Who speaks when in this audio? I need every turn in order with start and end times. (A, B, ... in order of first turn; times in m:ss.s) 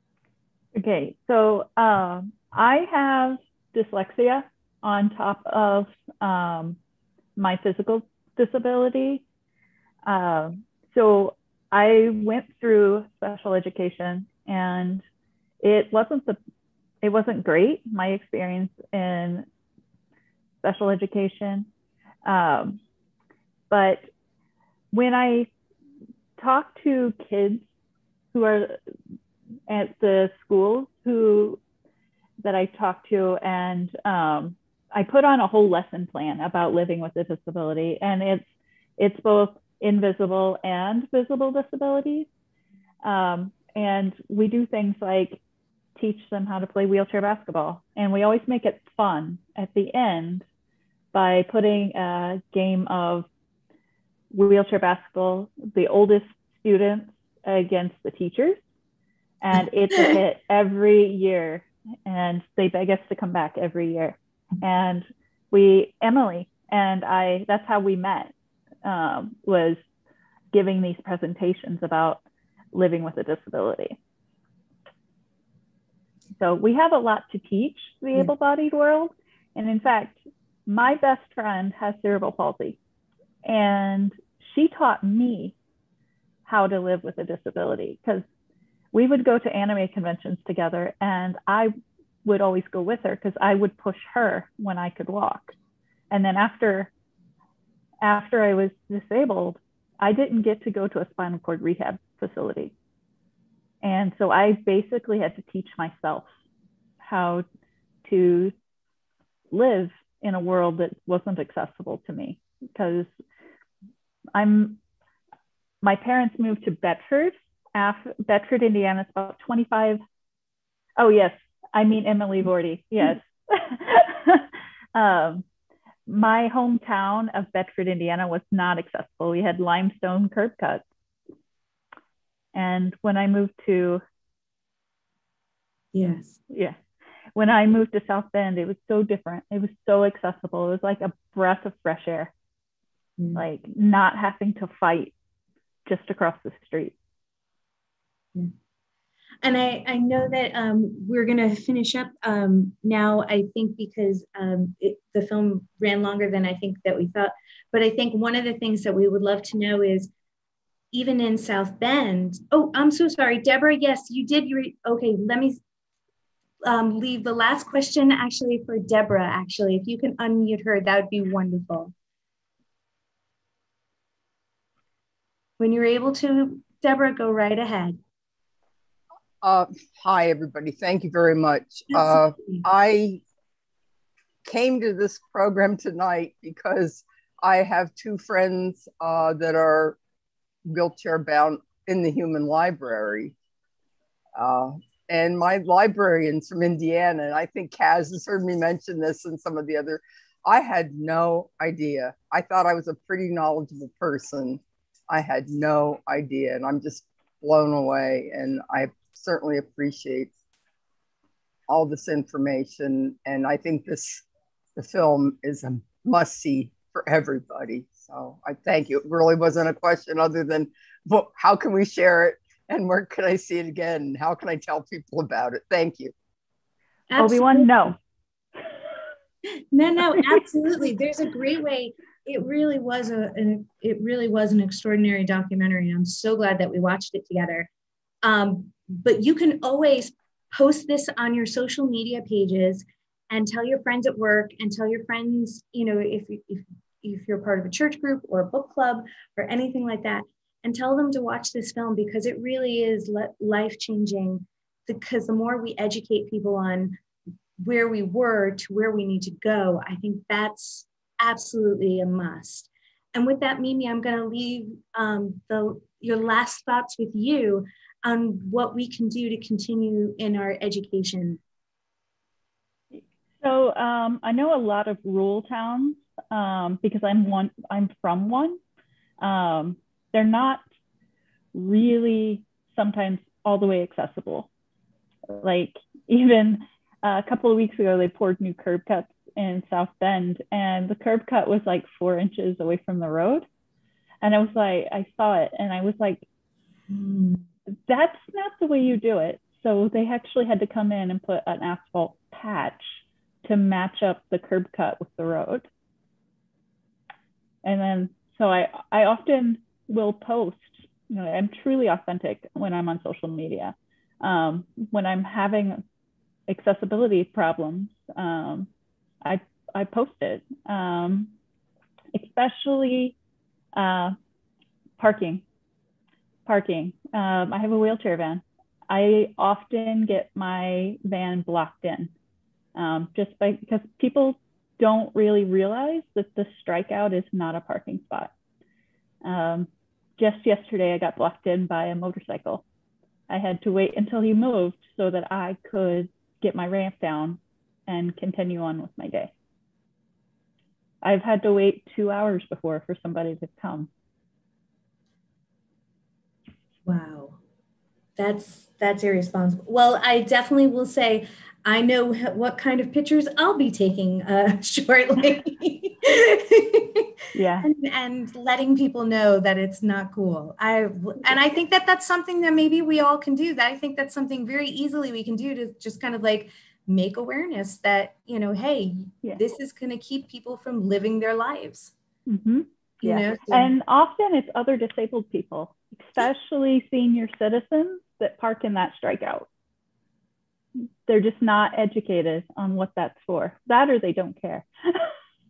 0:00.7-0:06.8 A
0:07.4-0:09.2 A
0:10.0-0:15.0 A
0:15.6-0:16.4 A
0:17.0-0:19.4 A
0:20.6-0:21.7 A
0:22.2-0:22.8 A
0:23.7-0:24.0 A
0:24.9-0:25.5 A
0:26.4-0:27.6 A
0:28.3-0:28.8 A
0:29.7-0:31.6 A
0:32.4-0:38.4 A
0:39.0-0:42.3 A
0:43.0-0:45.4 A
0:46.0-0:50.4 A
0:51.1-0:53.3 A
0:54.3-0:58.6 A
0:59.4-1:08.3 A
1:08.8-1:09.8 A
1:10.5-1:12.2 A
1:12.7-1:14.0 A
1:16.4-1:22.8 A
1:23.4-1:25.5 A
1:26.4-1:28.2 A
1:28.9-1:31.7 A
1:32.2-1:35.5 A
1:36.1-1:36.9 A
1:38.0-1:42.7 A
1:43.8-1:46.2 A
1:47.0-1:47.4 A
1:48.0-1:48.5 A
1:49.5-1:53.1 A
1:54.3-1:54.8 A
1:55.8-2:00.0 A
2:01.0-2:05.4 A
2:06.1-2:10.8 A
2:12.5-2:14.0 A
2:15.9-2:16.4 B
2:16.5-2:16.8 A
2:17.4-2:22.3 A
2:23.4-2:25.1 A
2:25.8-2:26.9 A
2:29.4-2:40.1 B
2:40.9-2:45.6 B
2:46.6-2:51.9 B
2:55.6-2:58.0 B
2:59.4-3:03.2 C
3:01.9-3:02.6 B
3:04.4-3:10.0 C
3:10.6-3:13.3 C
3:14.4-3:30.3 C
3:31.7-3:34.2 C
3:34.8-3:46.1 C
3:47.1-3:47.9 B
3:47.2-3:48.0 A
3:49.7-3:57.7 B
3:58.2-4:17.0 B
4:17.6-4:31.4 B
4:33.4-4:38.6 A
4:39.2-4:40.6 A
4:41.5-4:44.5 A
4:45.3-4:53.4 A
4:54.2-4:56.2 A
4:56.9-4:57.4 B
4:57.9-5:05.6 A
5:07.6-5:15.8 A
5:16.5-5:18.7 A
5:19.2-5:21.3 A
5:22.1-5:23.1 A
5:23.7-5:24.2 A
5:25.0-5:25.4 A
5:26.4-5:32.1 A
5:32.7-5:38.3 A
5:39.2-5:42.6 A
5:43.3-5:49.3 A
5:51.0-5:53.9 A
5:56.8-5:57.4 B
5:58.2-6:07.1 B
6:07.3-6:07.7 A
6:07.6-6:21.9 B
6:22.3-6:29.5 A
6:23.0-6:23.7 B
6:31.1-6:35.1 A